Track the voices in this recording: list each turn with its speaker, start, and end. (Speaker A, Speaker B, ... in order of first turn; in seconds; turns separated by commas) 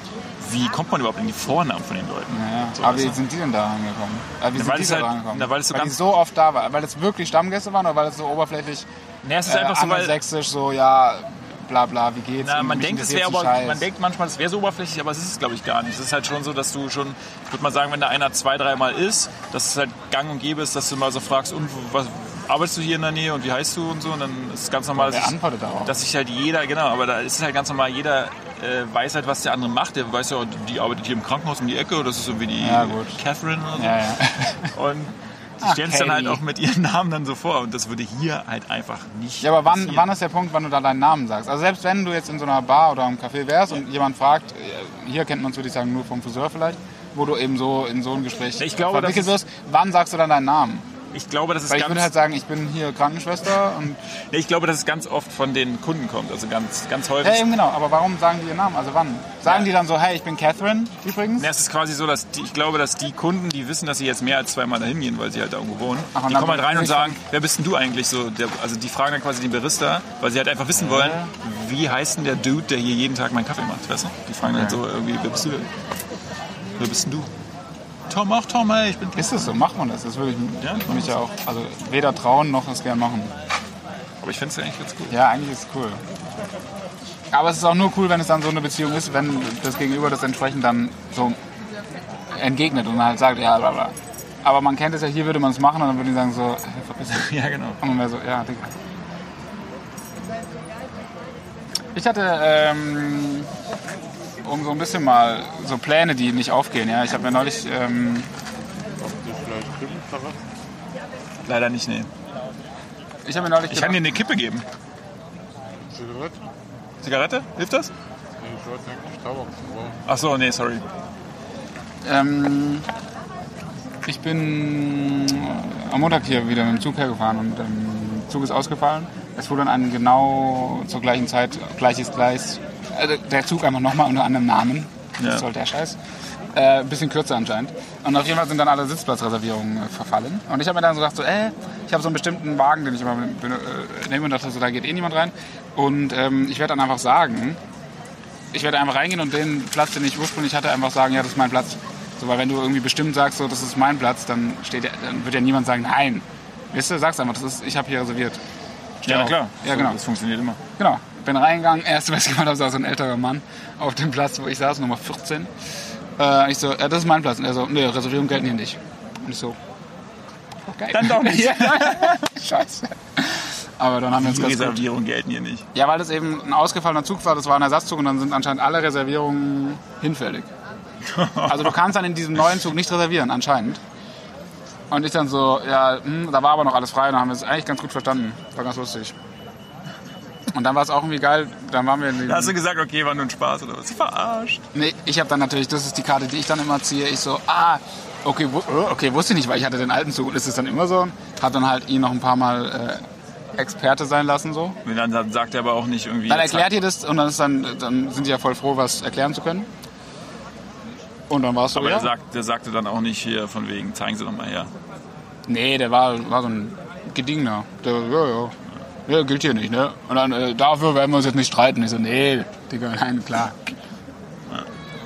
Speaker A: 0.4-3.2, Speaker B: 2.3-8.8, Speaker A: 4.5-6.0, Speaker A: 9.2-10.2, Speaker B: 9.4-13.8, Speaker A: 12.4-40.1, Speaker B: 24.9-25.9, Speaker B: 32.6-33.2, Speaker B: 33.7-34.7, Speaker B: 35.6-36.4, Speaker B: 39.4-50.9, Speaker A: 48.6-49.4, Speaker A: 51.1-52.1, Speaker B: 51.7-54.0, Speaker A: 54.3-57.5, Speaker B: 57.2-61.5, Speaker A: 61.4-75.7, Speaker B: 66.1-67.2, Speaker B: 70.8-71.3, Speaker B: 74.4-74.8, Speaker A: 76.8-77.3, Speaker A: 78.1-79.6, Speaker B: 79.2-83.3, Speaker A: 80.6-81.1, Speaker A: 84.2-85.1, Speaker B: 85.1-86.0, Speaker B: 87.3-91.4, Speaker B: 92.3-97.3, Speaker A: 97.1-97.8, Speaker B: 97.8-98.7, Speaker B: 101.9-103.5, Speaker B: 104.4-108.3, Speaker C: 109.0-110.4, Speaker A: 111.4-112.1, Speaker B: 113.2-114.0, Speaker A: 113.7-114.6, Speaker C: 115.8-116.4, Speaker A: 117.0-117.9, Speaker C: 118.4-120.0, Speaker A: 120.0-120.8, Speaker B: 122.0-122.8, Speaker B: 124.0-136.0, Speaker A: 135.2-135.4, Speaker B: 136.5-147.6, Speaker B: 148.5-158.4, Speaker B: 159.0-160.0, Speaker A: 159.1-160.6, Speaker B: 160.8-165.5, Speaker B: 166.2-169.6, Speaker B: 170.7-174.9, Speaker A: 170.9-172.2, Speaker A: 174.1-175.7, Speaker B: 175.7-180.5, Speaker A: 181.0-181.7, Speaker B: 181.4-183.8, Speaker B: 184.9-189.1, Speaker B: 190.5-192.5, Speaker A: 192.2-194.7, Speaker B: 194.7-203.0, Speaker B: 203.6-204.8, Speaker A: 204.8-206.7, Speaker B: 206.3-209.7, Speaker B: 211.3-212.1, Speaker A: 211.7-214.7, Speaker B: 215.5-218.5, Speaker B: 219.1-223.8